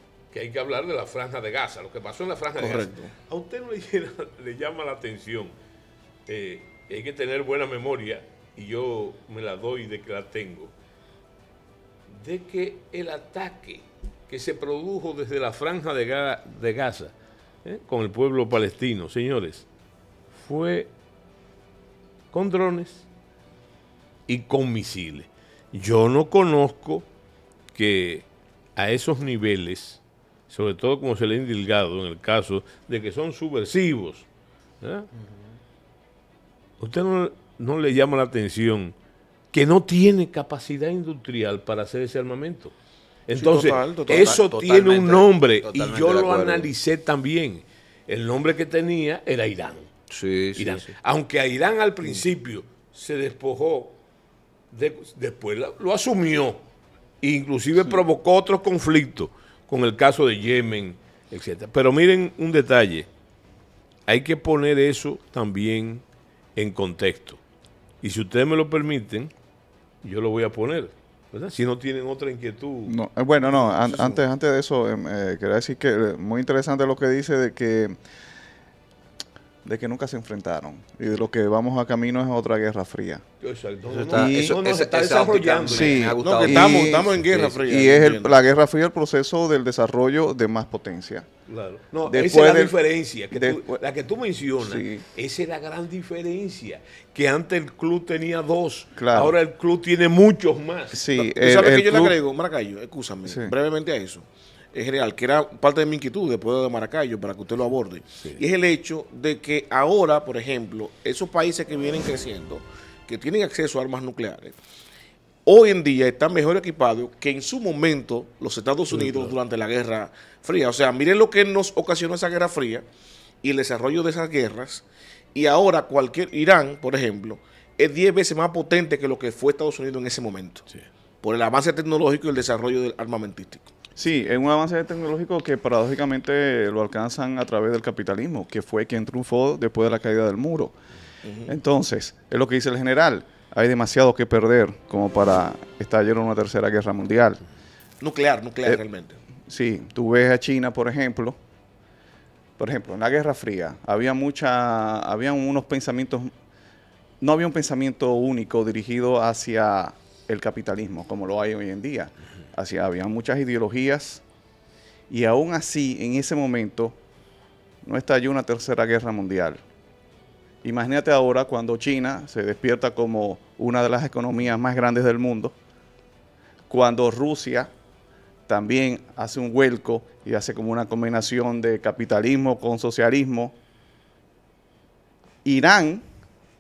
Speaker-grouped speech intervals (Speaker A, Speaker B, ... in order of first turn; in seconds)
Speaker A: 0.3-5.5, 6.3-10.7, 12.1-17.1, 17.6-19.7, 20.4-20.9, 22.3-23.1, 24.3-27.1, 27.7-34.3, 34.8-35.1, 36.8-39.0, 39.5-42.7, 43.3-49.9, 50.6-54.0, 54.7-56.6, 57.2-63.1, 64.1-66.0, 66.6-67.4, 68.0-69.3, 70.0-73.0, 83.4-86.2, 91.5-101.1, 118.9-119.3
Speaker B: 2.6-3.1, 43.3-44.3, 73.5-74.2, 86.2-88.3, 101.2-114.6, 115.5-122.8, 123.4-130.7, 131.2-133.7, 141.2-141.5, 148.0-149.2
Speaker C: 44.1-46.7, 50.1-50.9, 84.0-87.0
Speaker D: 72.9-78.0, 79.6-83.2, 84.1-84.6, 85.7-91.3, 92.1-92.8, 93.3-93.8, 94.6-95.0, 99.0-99.4, 100.9-102.2, 103.3-103.5, 134.0-140.7, 141.5-147.4, 149.5-151.4, 152.6-156.3, 157.2-164.2, 165.1-167.0, 167.8-169.6, 170.6-175.6, 176.7-177.7, 178.5-183.6, 185.4-186.0